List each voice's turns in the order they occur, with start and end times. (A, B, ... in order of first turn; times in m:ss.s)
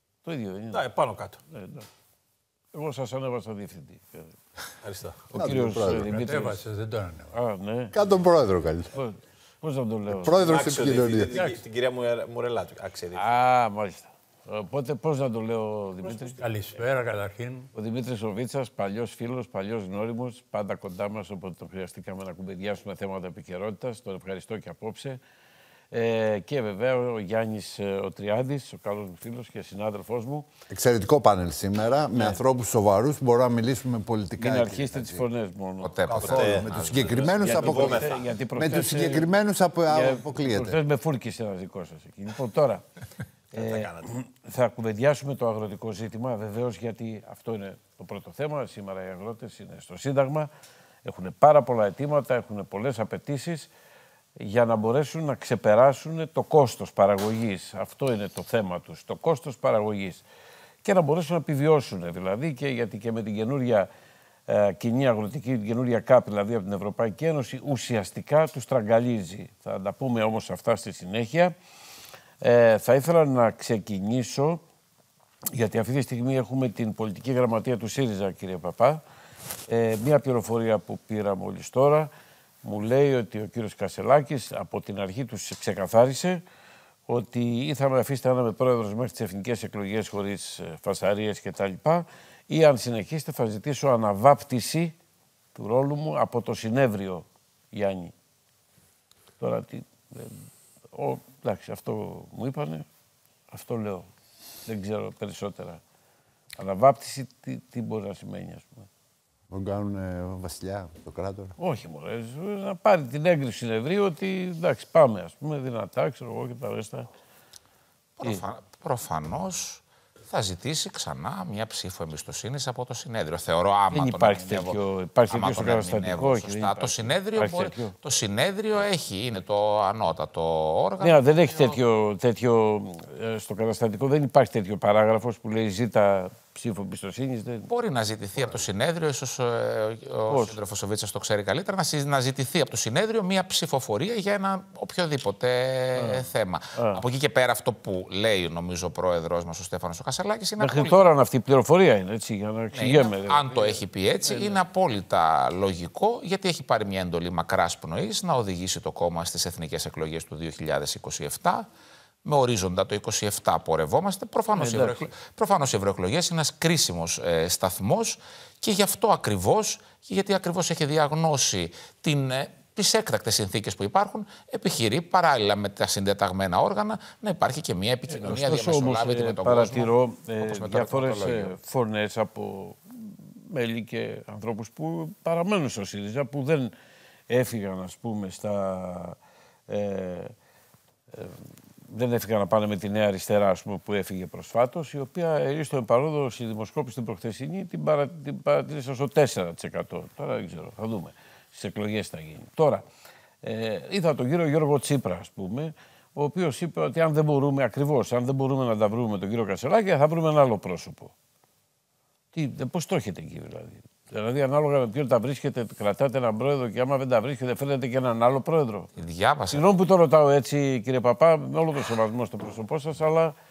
0:00.2-0:00.8 A
0:00.7-0:01.4 B
0:01.5-0:01.9 A
0:02.7-0:04.3 A
0:04.8-0:05.3 B
0:05.3-0:06.6 A
0:05.4-0:06.2 C
0:06.0-0:07.3 D
0:07.3-0:07.9 A
0:07.9-0:08.9 C
0:08.9-0:10.6 A
0:10.1-0:11.3 C
0:10.4-0:13.2 B
0:13.1-0:16.4 A
0:16.2-0:17.7 D
0:17.7-0:25.2 A
0:25.9-0:30.4 A
0:30.7-0:35.2 C
0:34.4-0:35.9 A
0:35.8-0:37.3 E
0:36.1-0:40.8 C
0:36.2-0:38.2 B
0:37.4-0:39.3 A
0:39.9-0:42.8 A
0:43.5-0:44.1 B
0:43.5-0:50.5 A
0:51.0-0:53.7 A
0:54.4-1:00.2 A
1:00.8-1:03.9 A
1:04.5-1:11.5 A
1:12.4-1:14.6 A
1:15.5-1:19.0 A
1:19.7-1:22.1 A
1:22.6-1:26.4 A
1:27.1-1:34.9 A
1:35.5-1:38.1 A
1:39.4-1:42.9 A
1:43.5-1:44.1 A
1:44.6-1:45.8 A
1:46.6-1:48.9 A
1:49.5-1:51.6 C
1:51.6-1:57.1 A
1:58.2-2:04.8 E
2:03.9-2:07.9 A
2:05.3-2:11.8 E
2:11.0-2:17.7 A
2:17.7-2:31.0 E
2:20.3-2:20.6 A
2:26.0-2:27.0 A
2:30.6-2:34.6 A
2:32.7-2:41.7 E
2:42.2-2:59.9 E
2:44.5-2:45.1 A
2:58.1-3:06.7 A
3:00.4-3:01.5 E
3:07.3-3:10.3 A
3:11.1-3:22.8 A
3:23.4-3:31.1 A
3:32.3-3:38.9 A
3:39.0-3:39.7 E
3:39.5-3:43.3 A